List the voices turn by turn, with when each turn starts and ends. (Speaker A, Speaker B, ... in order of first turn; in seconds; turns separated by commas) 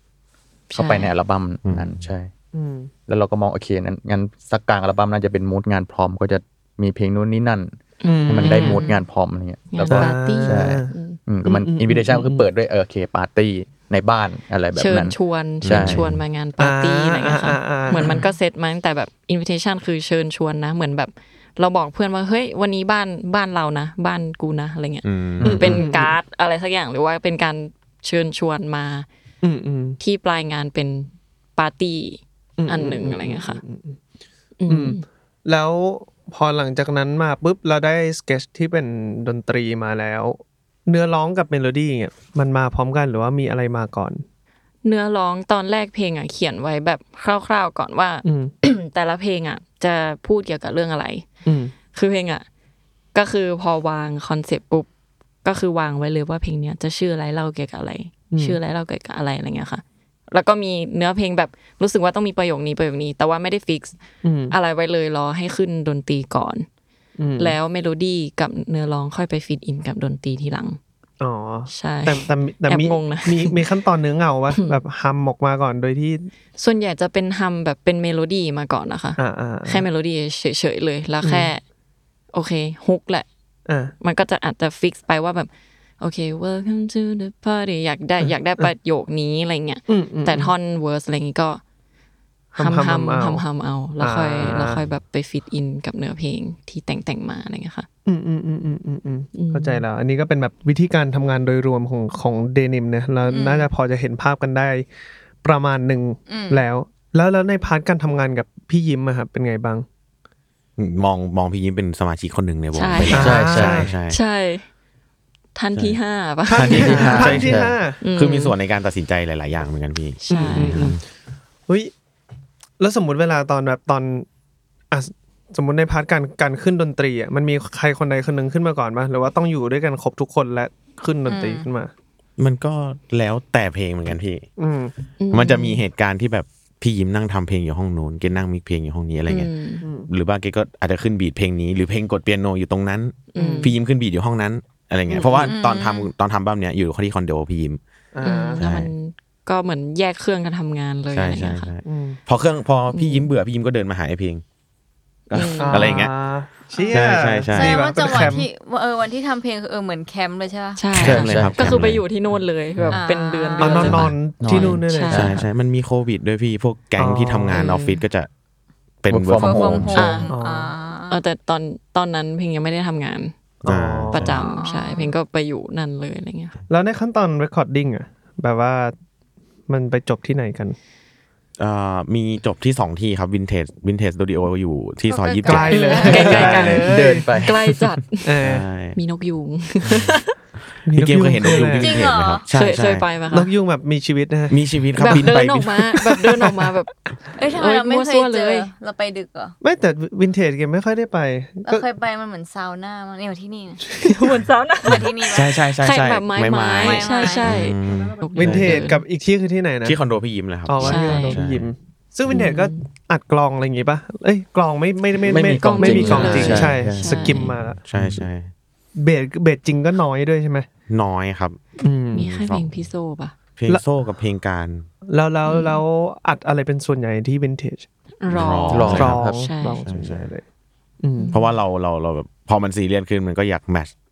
Speaker A: 0.7-1.1, Speaker B: 0.8-2.3, Speaker C: 1.6-2.0, Speaker D: 2.5-2.9, Speaker B: 3.1-7.7, Speaker A: 8.0-9.0, Speaker D: 8.1-8.9, Speaker B: 8.3-16.1, Speaker A: 9.7-11.2, Speaker D: 9.9-10.9, Speaker D: 11.4-12.4, Speaker A: 14.8-29.1, Speaker C: 15.6-16.2, Speaker D: 16.6-18.2, Speaker C: 25.0-25.8, Speaker B: 25.4-25.7, Speaker D: 25.4-26.1, Speaker D: 29.4-30.0, Speaker A: 30.0-33.6, Speaker D: 32.6-34.0, Speaker A: 34.6-35.0, Speaker D: 34.7-44.2, Speaker A: 44.8-51.3, Speaker D: 48.2-48.5, Speaker D: 51.5-51.7, Speaker A: 51.9-52.5, Speaker A: 53.1-54.9, Speaker A: 55.4-64.0, Speaker D: 58.3-58.6, Speaker D: 64.2-64.6, Speaker A: 64.5-66.7, Speaker D: 67.2-67.6, Speaker A: 67.4-70.8, Speaker D: 71.2-76.3, Speaker A: 71.7-73.6, Speaker A: 76.6-81.6, Speaker D: 79.2-79.8, Speaker D: 81.2-81.5, Speaker A: 82.3-83.3, Speaker D: 83.7-83.9, Speaker A: 84.0-85.5, Speaker A: 86.0-91.6, Speaker D: 89.9-90.5, Speaker D: 92.6-93.4, Speaker A: 92.6-97.9, Speaker D: 94.0-94.8, Speaker D: 98.1-104.8, Speaker A: 99.3-99.8, Speaker E: 103.3-103.7, Speaker D: 105.4-109.8, Speaker E: 106.3-106.6, Speaker C: 110.8-114.2, Speaker A: 112.8-113.4, Speaker D: 113.1-113.9, Speaker B: 113.1-113.9, Speaker A: 114.1-114.7, Speaker A: 115.5-117.4, Speaker D: 116.5-118.0, Speaker C: 116.5-121.0, Speaker B: 116.7-117.8, Speaker A: 118.0-118.5, Speaker A: 120.2-120.8, Speaker D: 120.3-121.0, Speaker D: 122.8-124.3, Speaker D: 124.9-131.9, Speaker E: 131.3-131.7, Speaker C: 132.4-134.5, Speaker D: 134.6-134.9, Speaker A: 135.2-135.8, Speaker C: 135.3-139.5, Speaker A: 139.3-139.8, Speaker D: 139.8-140.1, Speaker C: 140.1-147.8, Speaker A: 143.3-143.8, Speaker D: 143.4-143.7, Speaker D: 145.1-145.5, Speaker E: 145.4-146.1, Speaker D: 148.1-148.6, Speaker A: 148.2-151.7, Speaker C: 148.6-148.9, Speaker C: 151.1-154.4, Speaker D: 151.9-152.2, Speaker A: 152.9-153.3, Speaker C: 155.3-156.1, Speaker A: 155.3-156.0, Speaker D: 155.6-158.5, Speaker C: 156.9-157.9, Speaker E: 157.5-160.9, Speaker A: 160.8-165.4, Speaker C: 160.9-162.0, Speaker B: 160.9-161.8, Speaker E: 162.9-163.9, Speaker D: 163.6-165.4, Speaker C: 163.7-168.3, Speaker B: 164.4-165.4, Speaker D: 167.0-167.7, Speaker A: 167.5-168.0, Speaker C: 169.0-170.2, Speaker B: 169.1-170.0, Speaker E: 169.4-171.2, Speaker A: 169.9-170.3, Speaker D: 170.3-170.7, Speaker A: 171.1-173.3, Speaker D: 173.6-174.3, Speaker C: 173.6-174.4, Speaker A: 174.1-176.6, Speaker E: 174.3-175.1, Speaker D: 176.7-178.9, Speaker D: 179.7-180.8, Speaker C: 181.6-186.8, Speaker E: 185.1-186.6, Speaker D: 185.5-187.3, Speaker A: 185.7-188.3, Speaker B: 186.4-187.9, Speaker D: 188.2-188.6, Speaker C: 188.4-189.0, Speaker A: 189.0-190.3, Speaker D: 190.9-192.0, Speaker C: 190.9-193.1, Speaker E: 191.6-192.5, Speaker A: 192.5-193.5, Speaker D: 193.3-195.4, Speaker C: 194.5-195.8, Speaker A: 195.0-196.9, Speaker D: 196.1-196.7, Speaker E: 197.4-199.6, Speaker A: 197.5-198.7, Speaker D: 199.6-201.8, Speaker E: 201.7-203.8, Speaker D: 203.9-204.4, Speaker A: 204.0-209.0, Speaker E: 204.8-205.6, Speaker C: 204.9-208.8, Speaker E: 206.8-207.5, Speaker D: 207.6-210.0, Speaker C: 209.8-211.7, Speaker D: 210.7-217.8, Speaker A: 210.8-211.4, Speaker A: 212.3-212.8, Speaker B: 215.3-217.3, Speaker A: 215.5-217.5, Speaker C: 216.0-217.0, Speaker C: 217.9-218.5, Speaker B: 217.9-218.3, Speaker D: 219.0-220.7, Speaker C: 220.9-221.6, Speaker D: 221.8-222.2, Speaker A: 222.1-223.3, Speaker C: 222.2-222.9, Speaker C: 223.6-224.9, Speaker D: 225.1-227.9, Speaker A: 225.5-225.8, Speaker A: 228.2-229.8, Speaker C: 228.3-229.2, Speaker B: 228.7-229.5, Speaker D: 228.9-230.4, Speaker C: 229.8-230.3, Speaker D: 231.0-231.3, Speaker A: 231.2-231.5, Speaker C: 231.3-233.9